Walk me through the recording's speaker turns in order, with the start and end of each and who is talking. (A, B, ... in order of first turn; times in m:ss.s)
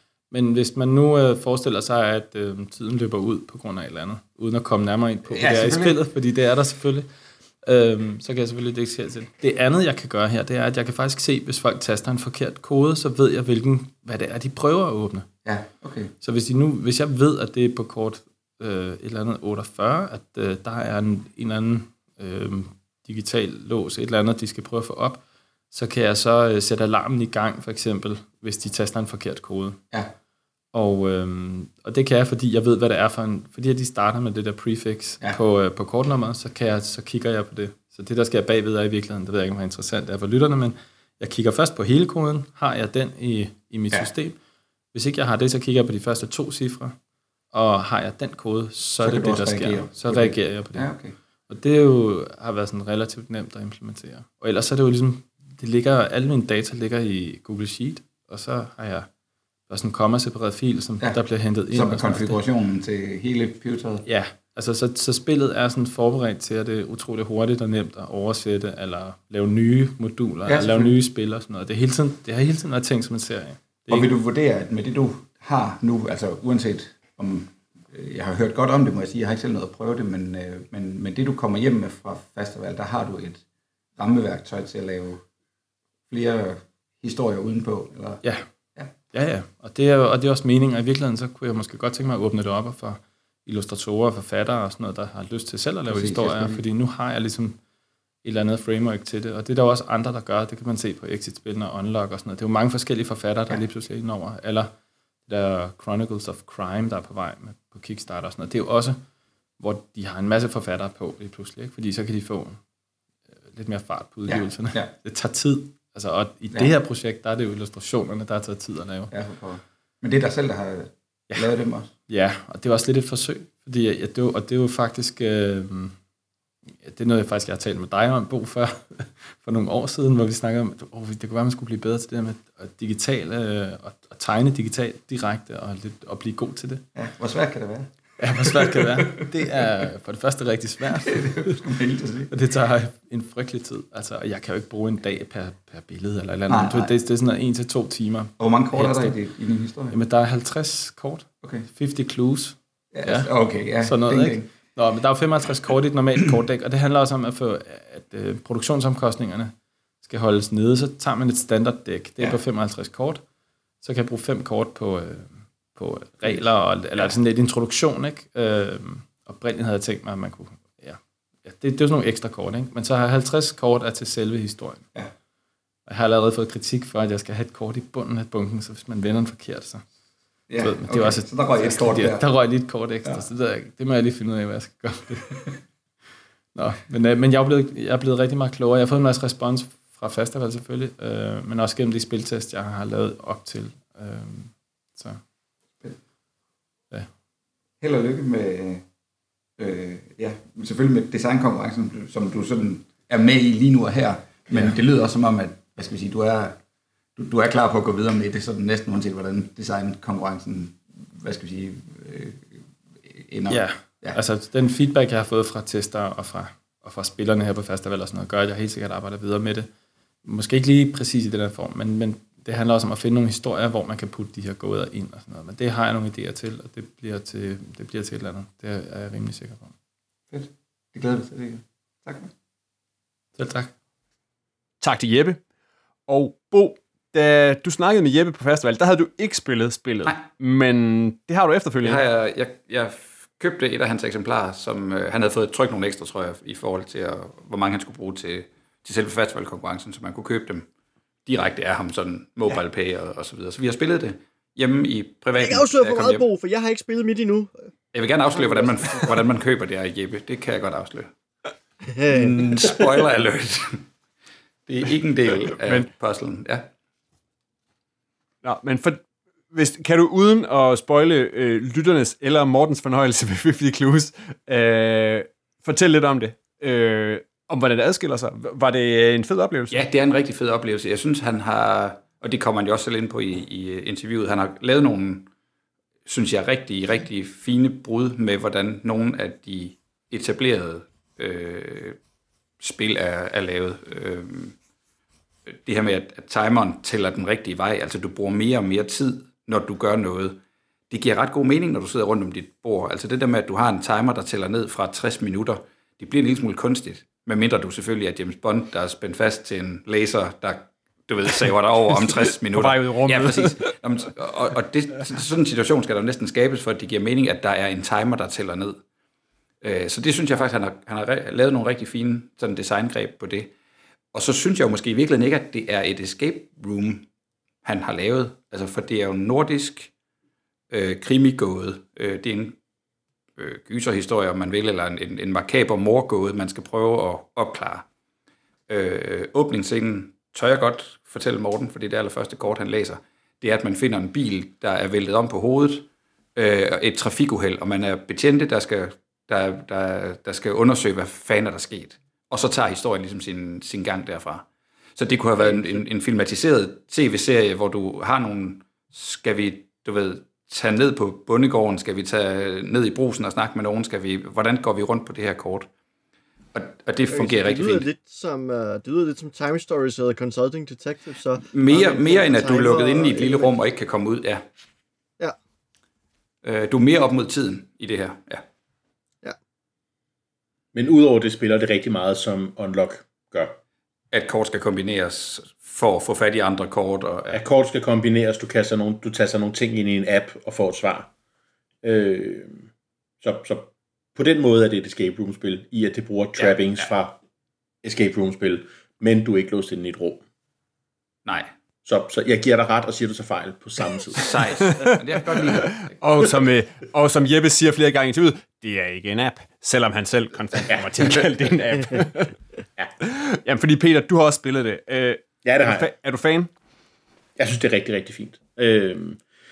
0:00.3-0:07.1 A
0:05.3-0:06.0 B
0:07.6-0:15.3 A
0:15.4-0:16.1 B
0:16.2-0:29.8 A
0:30.7-0:44.4 A
0:44.9-0:47.0 A
0:47.5-0:50.9 A
0:49.0-0:51.1 B
0:51.5-0:59.1 A
0:59.7-1:02.4 A
1:01.0-1:04.0 B
1:04.0-1:14.1 A
1:10.4-1:11.0 B
1:13.9-1:23.4 B
1:24.0-1:25.2 B
1:26.1-1:28.2 B
1:29.1-1:37.6 A
1:35.9-1:36.6 B
1:38.2-1:44.7 A
1:45.2-1:49.0 A
1:49.6-1:52.6 A
1:53.5-1:59.1 A
1:54.3-1:54.9 B
1:59.1-2:01.9 B
2:02.1-2:06.0 A
2:06.8-2:16.8 A
2:16.9-2:19.2 B
2:18.2-2:21.7 A
2:21.0-2:22.3 B
2:22.3-2:29.2 A
2:26.5-2:26.9 B
2:28.4-2:29.9 B
2:29.9-2:33.3 A
2:32.9-2:34.5 B
2:33.8-2:43.2 A
2:43.8-2:54.8 A
2:55.8-2:59.8 A
3:00.5-3:02.2 B
3:00.6-3:05.5 A
3:06.5-3:15.2 A
3:17.8-3:18.8 B
3:19.6-3:26.6 B
3:27.2-3:34.2 B
3:33.5-3:39.7 A
3:40.2-3:49.7 A
3:50.3-3:52.3 B
3:53.4-3:53.7 A
3:54.8-3:55.4 C
3:56.1-4:02.0 C
4:01.8-4:10.7 B
4:11.2-4:16.2 B
4:15.4-4:17.5 D
4:17.9-4:21.1 B
4:21.9-4:22.3 D
4:22.1-4:23.9 B
4:24.7-4:26.7 B
4:25.6-4:25.9 C
4:28.4-4:39.8 C
4:39.7-4:45.3 B
4:46.0-4:52.0 B
4:52.6-4:54.5 B
4:55.5-5:18.8 B
5:12.4-5:13.7 C
5:19.6-5:23.5 B
5:24.1-5:27.1 B
5:27.6-5:29.9 B
5:30.7-5:32.6 B
5:33.4-5:37.8 B
5:38.7-6:05.7 B
6:06.5-6:07.9 B
6:07.1-6:13.5 D
6:11.5-6:14.4 B
6:16.4-6:18.4 B
6:20.7-6:23.6 E
6:24.1-6:27.4 B
6:27.3-6:31.1 E
6:31.8-6:32.6 E
6:33.2-6:37.2 E
6:36.4-6:36.9 B
6:37.8-6:40.2 E
6:41.2-6:41.5 B
6:41.8-6:44.4 E
6:44.1-6:45.9 B
6:44.7-6:52.4 C
6:53.0-6:56.5 C
6:55.4-6:55.9 E
6:57.4-6:59.2 E